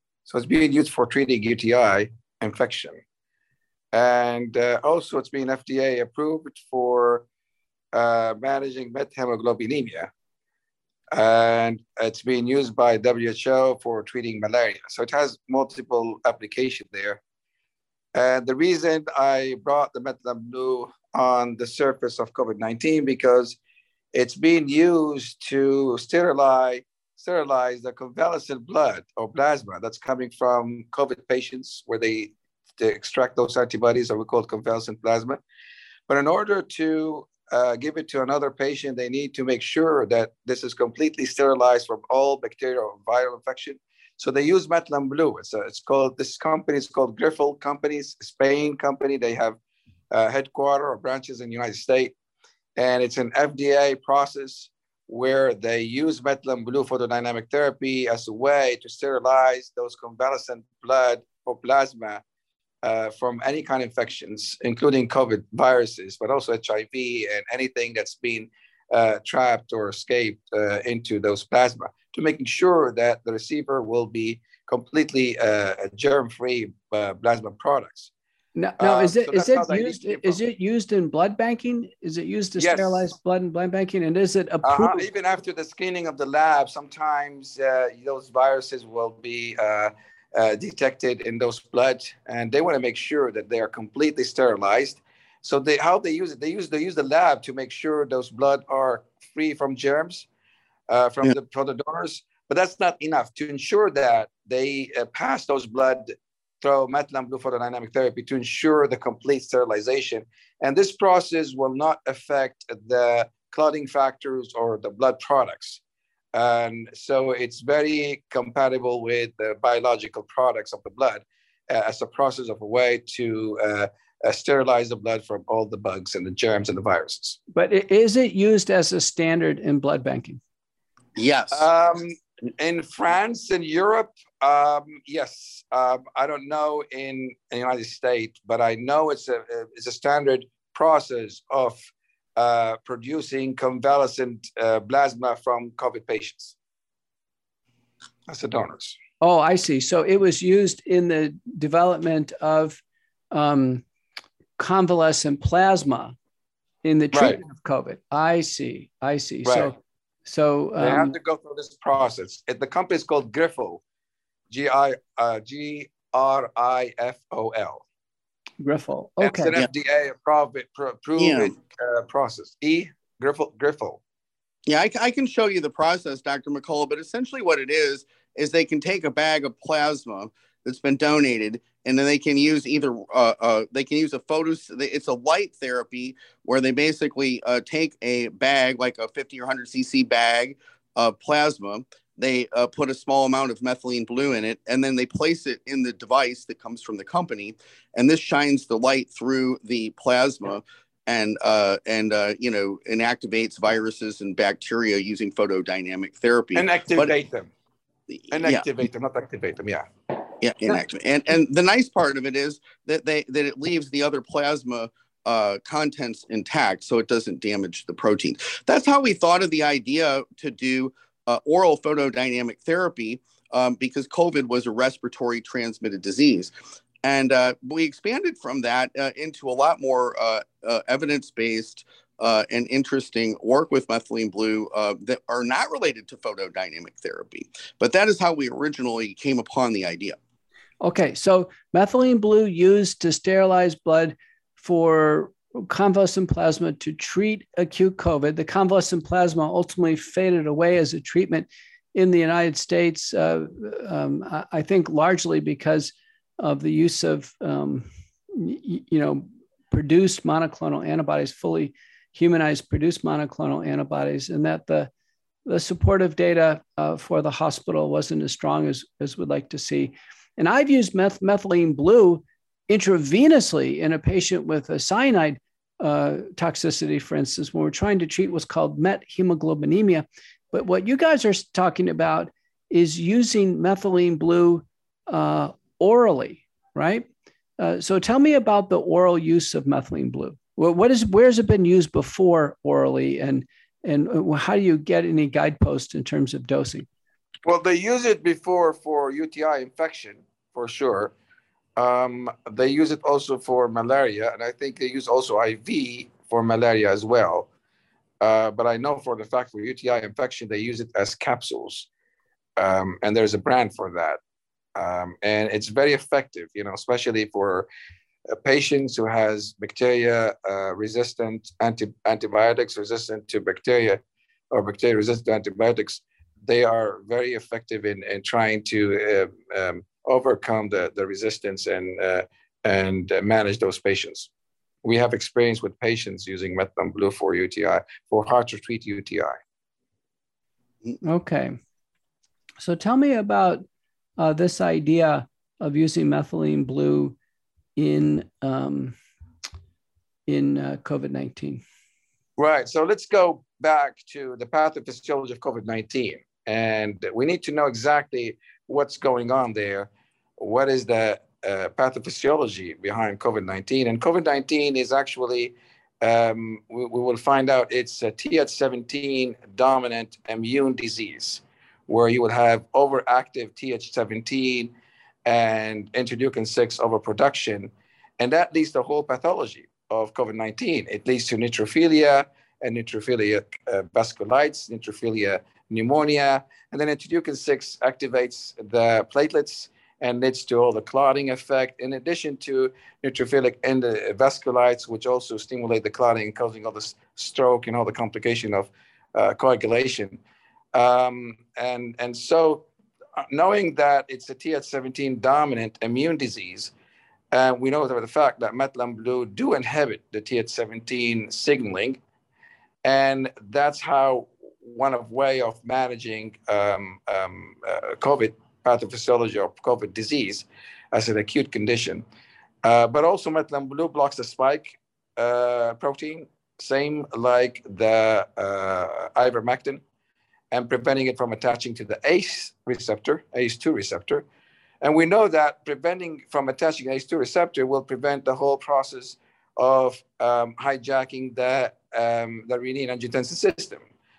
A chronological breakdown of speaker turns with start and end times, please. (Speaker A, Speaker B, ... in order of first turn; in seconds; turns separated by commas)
Speaker A: 0.3-3.0, Speaker A: 3.9-7.3, Speaker A: 7.9-10.1, Speaker A: 11.1-17.2, Speaker A: 18.1-23.6, Speaker A: 24.1-35.4, Speaker A: 36.1-49.6, Speaker A: 50.1-52.1, Speaker A: 52.8-62.2, Speaker A: 62.8-78.1, Speaker B: 78.5-85.1, Speaker A: 78.8-80.4, Speaker A: 82.6-83.0, Speaker A: 84.6-100.3, Speaker A: 100.9-115.8, Speaker A: 116.3-127.4, Speaker B: 127.5-130.4, Speaker C: 131.2-131.7, Speaker A: 131.5-141.8, Speaker A: 142.4-146.6, Speaker A: 148.3-149.0, Speaker B: 149.2-152.8, Speaker B: 153.3-153.8, Speaker B: 154.6-156.2, Speaker B: 156.8-161.1, Speaker A: 157.1-157.4, Speaker A: 159.4-159.7, Speaker A: 160.8-163.8, Speaker A: 164.5-167.8, Speaker B: 168.6-169.5, Speaker A: 169.2-174.0, Speaker C: 171.2-171.6, Speaker C: 174.7-207.1, Speaker A: 206.6-207.5, Speaker C: 208.1-208.7, Speaker A: 208.3-209.9, Speaker C: 210.4-226.5, Speaker C: 227.0-240.2, Speaker B: 240.8-264.9, Speaker B: 265.5-287.1, Speaker B: 287.6-296.9, Speaker A: 297.4-301.1, Speaker A: 301.8-307.5, Speaker A: 308.2-311.9, Speaker A: 312.6-314.2, Speaker A: 314.8-317.7, Speaker A: 318.4-324.0, Speaker A: 324.5-334.3, Speaker A: 334.8-339.4, Speaker B: 341.0-341.6, Speaker B: 342.6-343.6, Speaker B: 344.2-347.2, Speaker B: 347.8-349.0, Speaker B: 350.3-351.6, Speaker A: 352.4-374.7, Speaker A: 375.2-400.2, Speaker A: 400.7-402.7, Speaker A: 403.3-406.7, Speaker A: 407.3-412.0, Speaker A: 412.8-422.1, Speaker A: 422.6-429.8, Speaker A: 430.5-434.2, Speaker A: 434.8-443.8